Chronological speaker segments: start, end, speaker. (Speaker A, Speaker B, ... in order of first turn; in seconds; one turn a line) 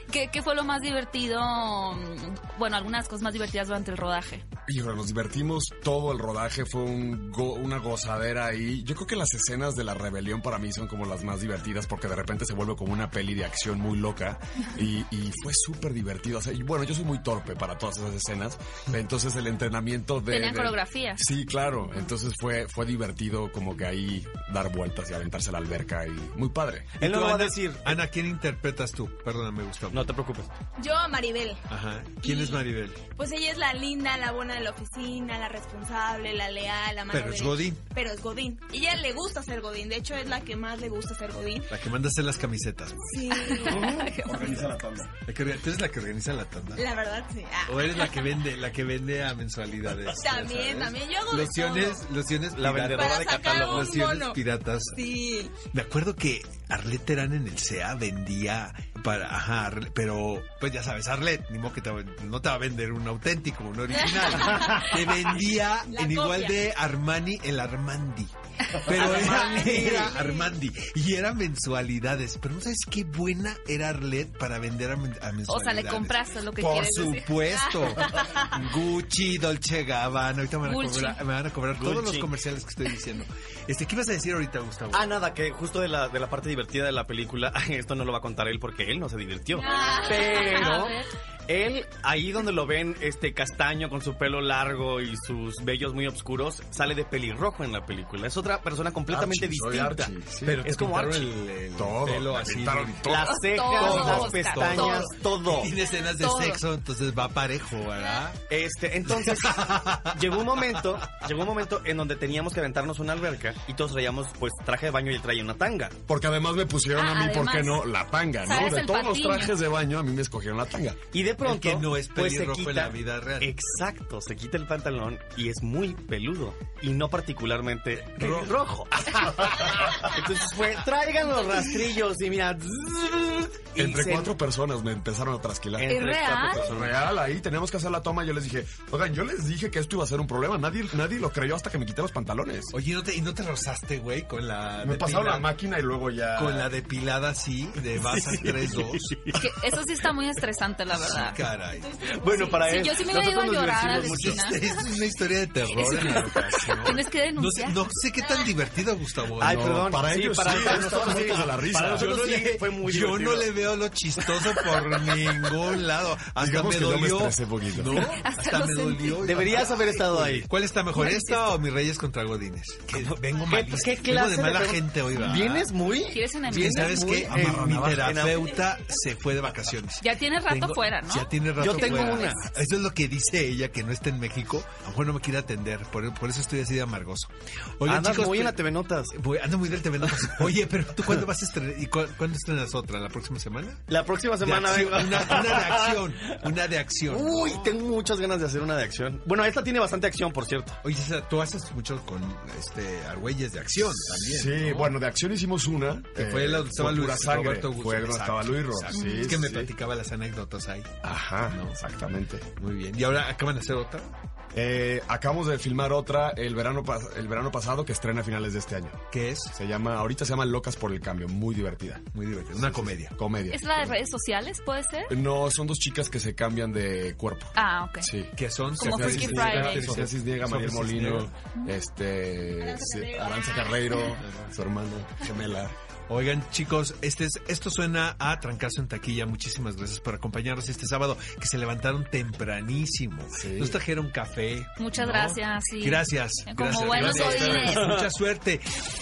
Speaker A: 0.1-4.4
Speaker B: 4.7-26.9
Speaker A: 20.3-21.2
Speaker C: 27.0-28.0
Speaker D: 27.0-30.1
Speaker C: 29.9-30.5
Speaker E: 30.8-31.6
Speaker D: 31.7-33.0
Speaker E: 32.2-41.7
Speaker D: 37.1-37.9
Speaker D: 41.3-43.3
Speaker E: 43.1-43.8
Speaker A: 43.4-44.7
Speaker B: 43.6-45.1
Speaker D: 44.4-44.7
Speaker D: 45.2-46.9
Speaker E: 46.8-47.8
Speaker D: 47.6-85.1
Speaker E: 50.1-52.0
Speaker C: 52.5-53.9
Speaker E: 52.9-55.6
Speaker E: 65.8-66.6
Speaker C: 69.1-70.0
Speaker E: 69.4-70.5
Speaker A: 75.5-78.2
Speaker A: 80.6-81.2
Speaker C: 81.8-82.3
Speaker C: 84.9-101.3
Speaker A: 89.5-91.1
Speaker B: 99.1-100.6
Speaker D: 100.4-108.4
Speaker B: 101.7-103.4
Speaker C: 103.0-105.8
Speaker A: 103.1-105.1
Speaker A: 105.9-106.6
Speaker C: 108.5-115.9
Speaker D: 109.1-110.8
Speaker B: 116.1-121.0
Speaker A: 116.9-117.9
Speaker A: 118.4-119.6
Speaker C: 121.1-134.3
Speaker D: 121.4-123.5
Speaker B: 128.1-128.5
Speaker B: 129.1-130.0
Speaker B: 133.8-142.7
Speaker C: 135.8-137.0
Speaker A: 135.9-136.7
Speaker D: 142.7-145.5
Speaker B: 144.8-146.7
Speaker D: 146.3-149.1
Speaker C: 148.0-149.4
Speaker A: 149.3-151.5
Speaker D: 150.9-152.4
Speaker E: 151.7-152.8
Speaker C: 152.1-154.5
Speaker A: 152.6-154.7
Speaker D: 153.9-159.9
Speaker B: 155.8-156.9
Speaker A: 155.8-157.8
Speaker B: 159.4-162.2
Speaker C: 159.4-163.6
Speaker D: 161.9-175.8
Speaker C: 164.2-165.5
Speaker B: 166.3-168.0
Speaker A: 167.9-169.5
Speaker C: 169.2-170.5
Speaker A: 170.9-171.5
Speaker C: 172.9-178.5
Speaker A: 176.1-177.1
Speaker D: 176.5-193.8
Speaker B: 177.2-178.3
Speaker A: 180.0-182.4
Speaker C: 181.6-182.4
Speaker C: 187.8-189.1
Speaker C: 190.1-190.5
Speaker C: 193.9-196.5
Speaker D: 194.4-197.8
Speaker C: 197.1-200.8
Speaker D: 200.8-205.0
Speaker B: 204.2-209.7
Speaker D: 206.1-210.9
Speaker A: 209.0-209.3
Speaker B: 211.0-212.5
Speaker D: 211.5-211.8
Speaker D: 212.5-214.1
Speaker B: 214.5-219.0
Speaker D: 219.1-219.5
Speaker B: 219.5-224.0
Speaker D: 222.1-223.2
Speaker A: 223.5-225.1
Speaker B: 225.1-235.7
Speaker A: 227.5-228.1
Speaker D: 228.3-231.3
Speaker A: 228.8-230.0
Speaker E: 232.6-233.9
Speaker D: 236.1-248.7
Speaker B: 243.3-243.8
Speaker A: 244.8-248.0
Speaker B: 246.8-247.8